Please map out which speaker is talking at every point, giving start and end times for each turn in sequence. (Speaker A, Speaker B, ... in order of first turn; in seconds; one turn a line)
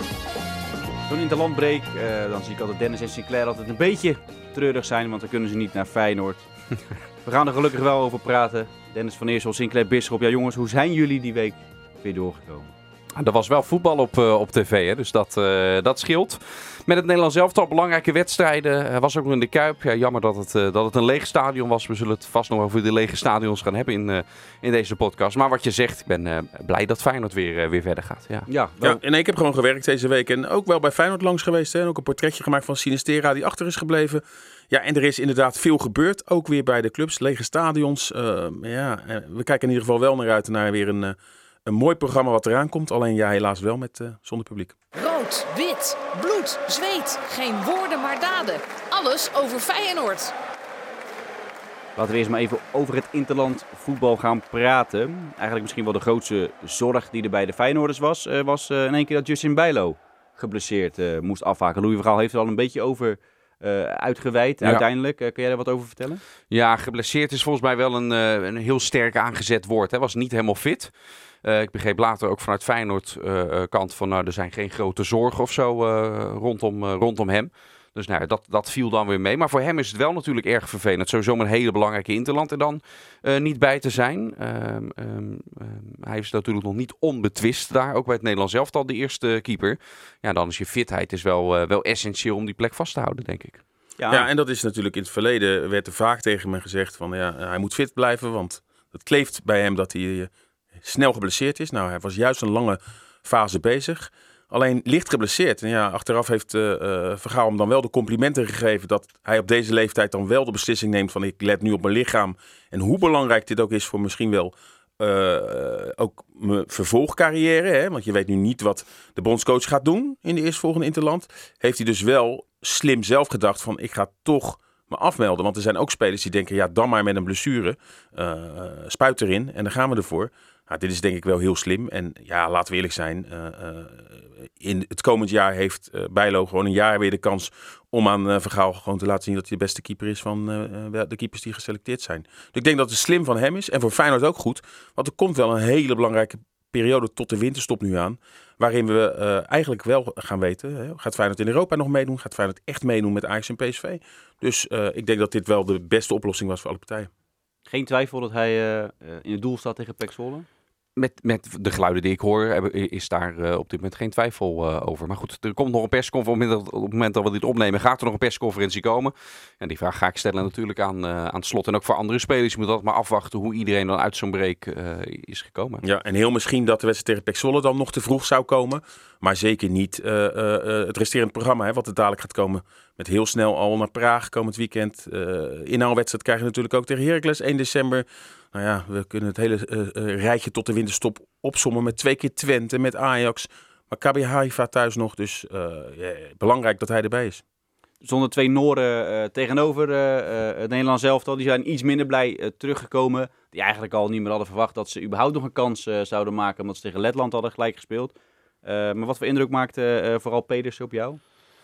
Speaker A: 1.1-6.5
Speaker A: 7.2-12.7
Speaker B: 13.2-28.5
Speaker A: 28.5-29.0
Speaker C: 28.8-44.7
Speaker D: 44.9-50.3
Speaker A: 52.0-66.2
Speaker B: 66.5-70.9
Speaker B: 71.4-93.6
Speaker A: 94.0-94.3
Speaker C: 94.1-157.1
Speaker A: 157.7-160.4
Speaker B: 160.9-175.8
Speaker C: 175.8-197.4
Speaker A: 198.0-211.2